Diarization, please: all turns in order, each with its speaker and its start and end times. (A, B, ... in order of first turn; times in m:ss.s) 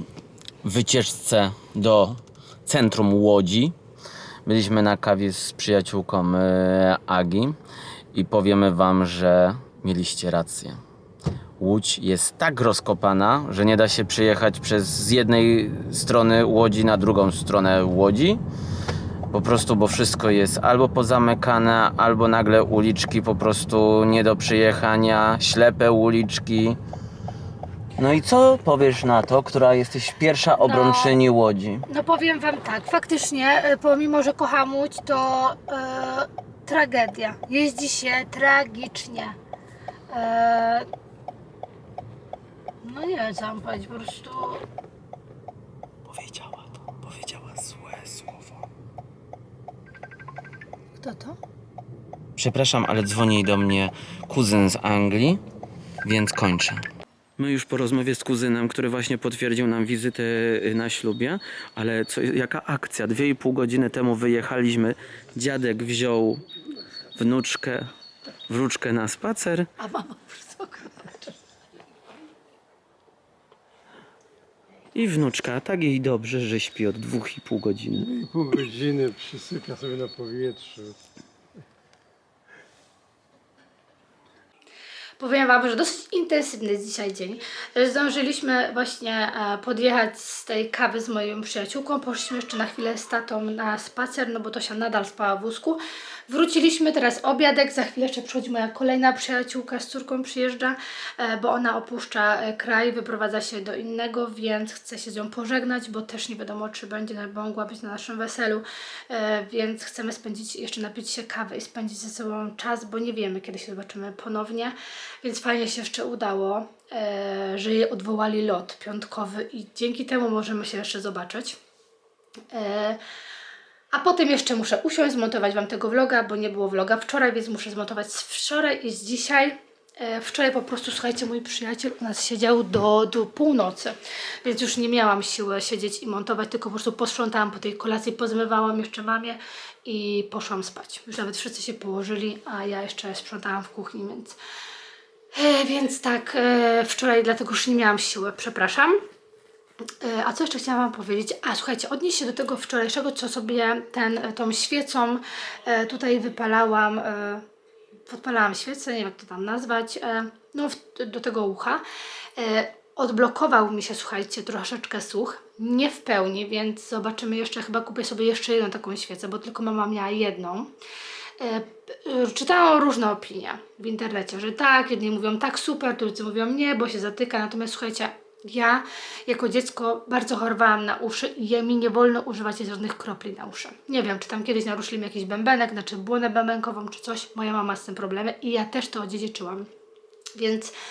0:00.6-0:03.7 A
0:04.4-0:07.6 A
0:08.1-0:10.8 A
0:11.6-0:18.4 A
0:19.3-0:26.8 A
0:28.0-0:31.8 A
0:30.6-0:31.1 B
0:31.9-0:39.4 B
0:40.1-0:40.9 B
0:42.8-0:44.6 B
0:46.1-0:48.6 A
0:51.0-0:51.4 B
0:52.4-0:55.4 A
0:56.0-0:56.8 A
0:57.4-1:06.4 A
1:07.2-1:07.9 A
1:08.5-1:09.7 A
1:09.8-1:11.4 B
1:14.9-1:18.1 A
1:17.9-1:21.0 C
1:25.2-2:01.6 B
2:02.5-2:03.0 B
2:03.9-2:24.4 B
2:25.3-2:29.0 B
2:30.0-2:37.4 B
2:38.1-2:41.8 B
2:42.4-2:50.7 B
2:51.4-3:09.7 B
3:10.3-3:10.7 B